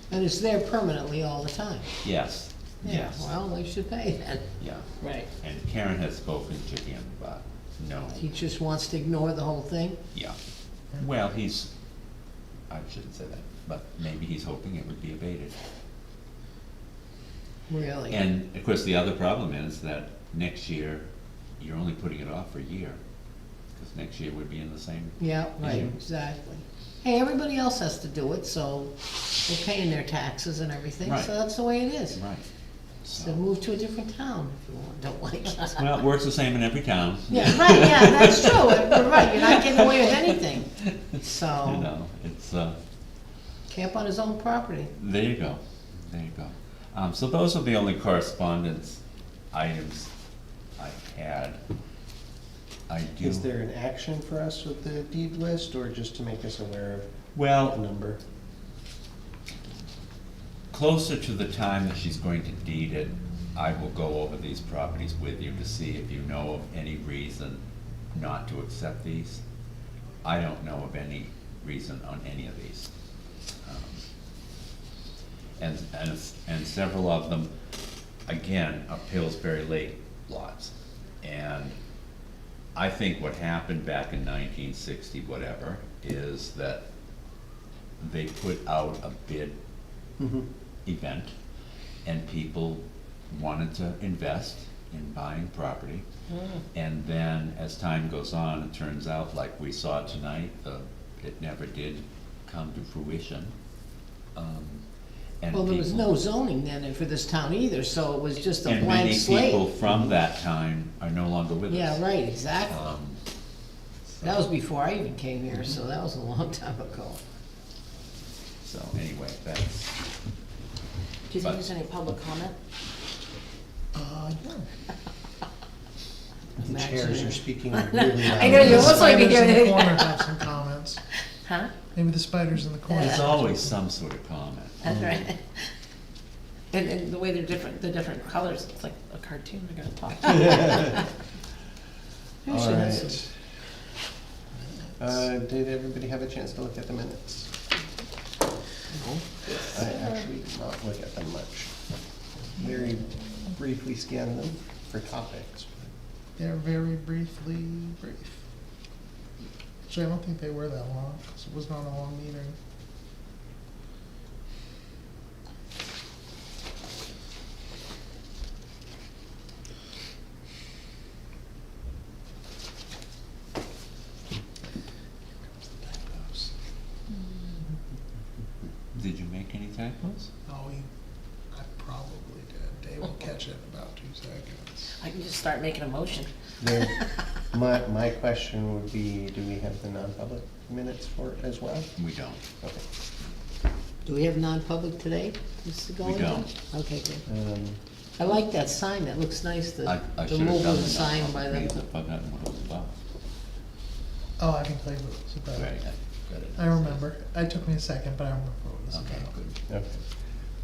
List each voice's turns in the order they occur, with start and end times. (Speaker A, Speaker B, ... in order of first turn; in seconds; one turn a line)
Speaker A: 0.1-1.9
Speaker B: 2.0-3.3
Speaker A: 2.8-4.5
Speaker B: 4.6-4.9
Speaker C: 5.0-5.3
Speaker B: 5.4-8.3
Speaker A: 8.2-10.0
Speaker B: 11.0-11.7
Speaker B: 12.7-15.6
Speaker A: 17.7-18.2
Speaker B: 18.1-21.1
Speaker B: 21.6-23.0
Speaker B: 23.8-25.9
Speaker A: 25.2-32.2
Speaker B: 31.1-31.3
Speaker B: 32.1-32.5
Speaker B: 33.0-33.4
Speaker A: 33.1-35.9
Speaker B: 35.7-40.3
Speaker A: 37.3-41.9
Speaker B: 41.0-42.8
Speaker A: 43.7-44.9
Speaker B: 45.0-49.0
Speaker B: 49.5-50.1
Speaker B: 50.8-51.6
Speaker B: 52.9-53.5
Speaker D: 53.2-58.2
Speaker B: 57.3-57.8
Speaker B: 60.7-67.6
Speaker B: 68.1-69.4
Speaker B: 70.2-72.9
Speaker B: 73.7-74.0
Speaker B: 75.6-77.5
Speaker B: 78.3-81.8
Speaker B: 82.8-86.8
Speaker B: 88.0-89.6
Speaker B: 90.9-91.3
Speaker B: 92.0-96.0
Speaker B: 96.7-103.5
Speaker B: 104.3-104.8
Speaker B: 105.4-106.2
Speaker A: 105.5-109.7
Speaker B: 108.7-112.0
Speaker A: 111.7-112.7
Speaker B: 112.7-113.2
Speaker B: 114.0-114.5
Speaker A: 114.2-117.2
Speaker B: 118.6-119.9
Speaker C: 121.3-122.6
Speaker E: 123.9-124.7
Speaker D: 126.6-129.1
Speaker A: 126.6-129.2
Speaker C: 128.2-130.3
Speaker E: 128.6-131.0
Speaker C: 131.4-131.7
Speaker E: 131.9-133.6
Speaker C: 132.9-133.2
Speaker B: 133.0-135.0
Speaker C: 134.8-135.6
Speaker D: 134.9-135.2
Speaker C: 136.7-141.1
Speaker A: 142.5-143.1
Speaker D: 142.5-143.3
Speaker D: 145.0-147.5
Speaker C: 149.5-150.0
Speaker D: 149.6-151.7
Speaker D: 152.5-155.8
Speaker E: 156.4-158.4
Speaker E: 159.9-162.6
Speaker E: 175.7-176.5
Speaker B: 179.0-180.3
Speaker E: 180.5-180.9
Speaker E: 181.5-184.9
Speaker C: 185.0-186.3
Speaker D: 186.6-187.0
Speaker D: 187.5-191.9
Speaker B: 192.0-192.4
Speaker A: 194.1-197.2
Speaker B: 196.0-196.5
Speaker D: 197.3-197.8
Speaker A: 198.2-201.7
Speaker B: 199.8-202.9
Speaker E: 204.4-205.7
Speaker B: 205.5-207.0
Speaker E: 206.6-209.3
Speaker B: 208.9-209.6